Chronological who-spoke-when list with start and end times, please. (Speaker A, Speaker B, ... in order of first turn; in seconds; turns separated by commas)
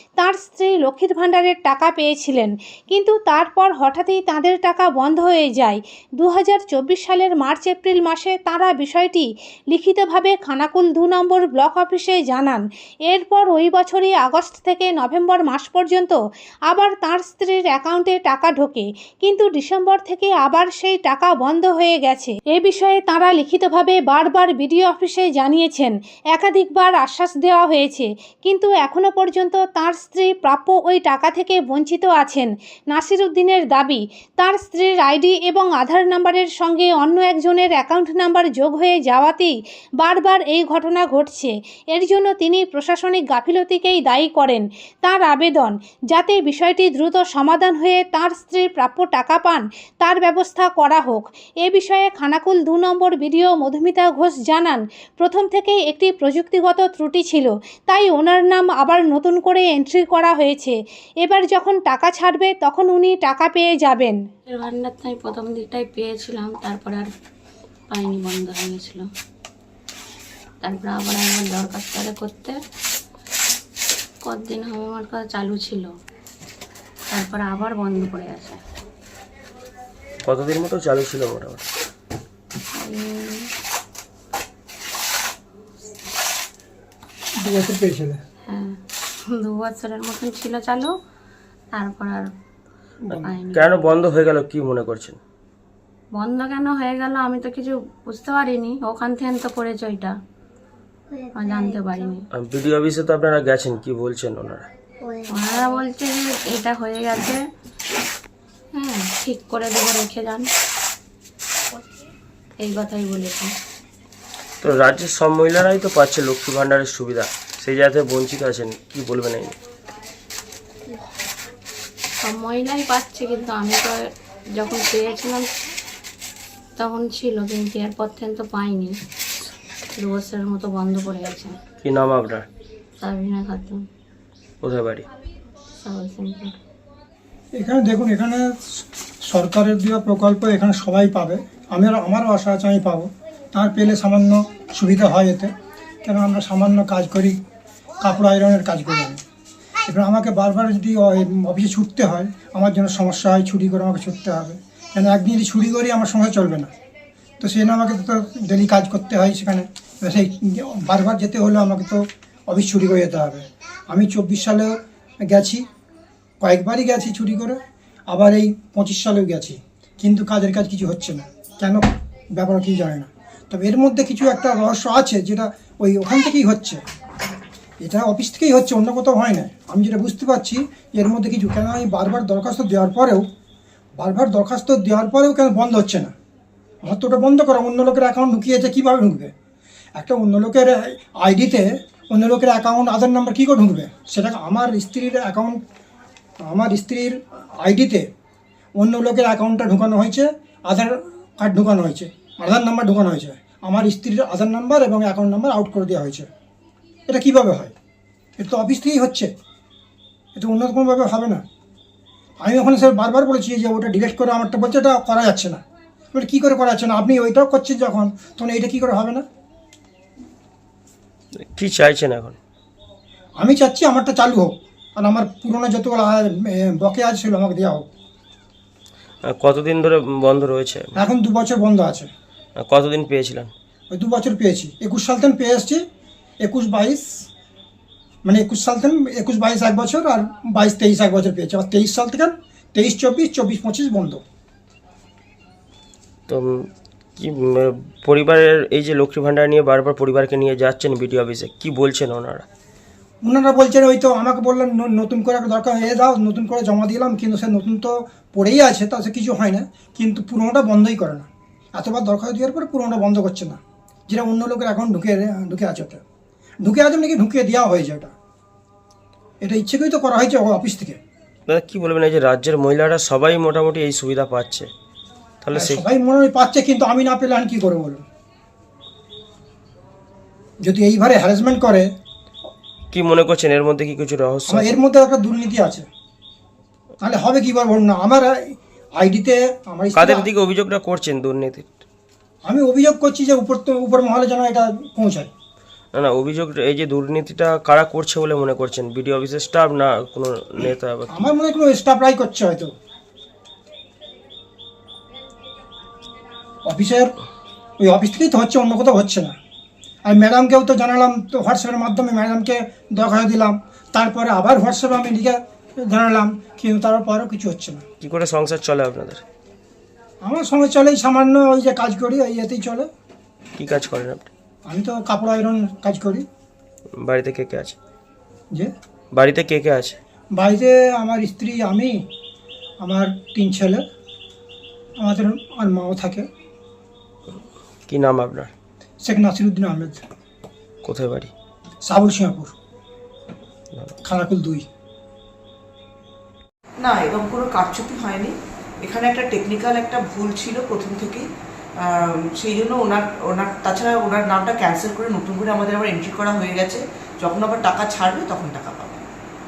Speaker A: 0.2-64.2, Speaker B: 64.5-67.1, Speaker B: 67.9-69.0, Speaker B: 70.6-72.5, Speaker B: 74.2-75.9, Speaker B: 77.1-78.6, Speaker C: 80.2-81.6, Speaker B: 82.8-83.5, Speaker D: 87.4-88.2, Speaker B: 88.5-88.8, Speaker B: 89.3-90.9, Speaker B: 91.7-92.3, Speaker D: 93.1-93.4, Speaker B: 93.1-93.9, Speaker C: 93.5-95.2, Speaker B: 96.1-100.1, Speaker B: 101.3-102.2, Speaker C: 102.3-104.7, Speaker B: 105.3-107.4, Speaker B: 108.7-110.5, Speaker B: 112.6-113.5, Speaker C: 114.6-119.5, Speaker B: 122.2-124.0, Speaker B: 124.5-125.4, Speaker B: 126.8-128.9, Speaker B: 130.0-131.6, Speaker C: 131.8-132.5, Speaker B: 133.0-133.8, Speaker C: 134.6-135.0, Speaker B: 135.8-136.6, Speaker D: 137.5-138.5, Speaker D: 139.3-145.5, Speaker D: 146.0-147.3, Speaker D: 148.0-149.2, Speaker D: 149.9-156.7, Speaker D: 157.4-164.7, Speaker D: 165.3-165.6, Speaker D: 166.4-167.6, Speaker D: 168.1-176.8, Speaker D: 177.8-183.2, Speaker D: 184.0-186.1, Speaker D: 186.8-189.3, Speaker D: 189.9-195.6, Speaker D: 196.4-198.1, Speaker D: 198.8-206.3, Speaker D: 207.1-207.7, Speaker D: 208.4-209.3, Speaker D: 210.3-211.4, Speaker D: 212.4-215.6, Speaker D: 216.1-219.2, Speaker C: 221.5-222.4, Speaker D: 223.4-227.8, Speaker C: 229.3-230.9, Speaker D: 230.9-232.1, Speaker C: 232.6-233.5, Speaker D: 233.9-235.8, Speaker D: 236.4-237.2, Speaker D: 238.2-244.2, Speaker C: 246.3-252.4, Speaker D: 253.2-266.0, Speaker D: 266.6-268.1, Speaker D: 269.4-271.0, Speaker C: 271.5-274.7, Speaker C: 275.4-275.8, Speaker D: 275.5-278.0, Speaker D: 280.6-281.9, Speaker C: 282.9-284.8, Speaker D: 284.5-285.9, Speaker D: 287.0-290.3, Speaker C: 289.9-291.7, Speaker D: 292.4-295.3, Speaker C: 295.9-301.3, Speaker D: 301.1-302.7, Speaker D: 306.6-307.1, Speaker D: 307.8-309.3, Speaker D: 310.1-317.8, Speaker C: 318.0-319.2, Speaker D: 320.2-322.9, Speaker C: 323.5-324.3, Speaker D: 324.6-326.2, Speaker C: 327.0-327.8, Speaker C: 329.1-330.0, Speaker D: 330.3-331.9, Speaker D: 332.8-333.8, Speaker D: 335.0-336.2, Speaker C: 337.9-338.5, Speaker D: 339.0-340.0, Speaker C: 340.8-341.3, Speaker D: 341.8-342.5, Speaker D: 344.0-344.6, Speaker E: 346.8-351.3, Speaker E: 351.8-359.0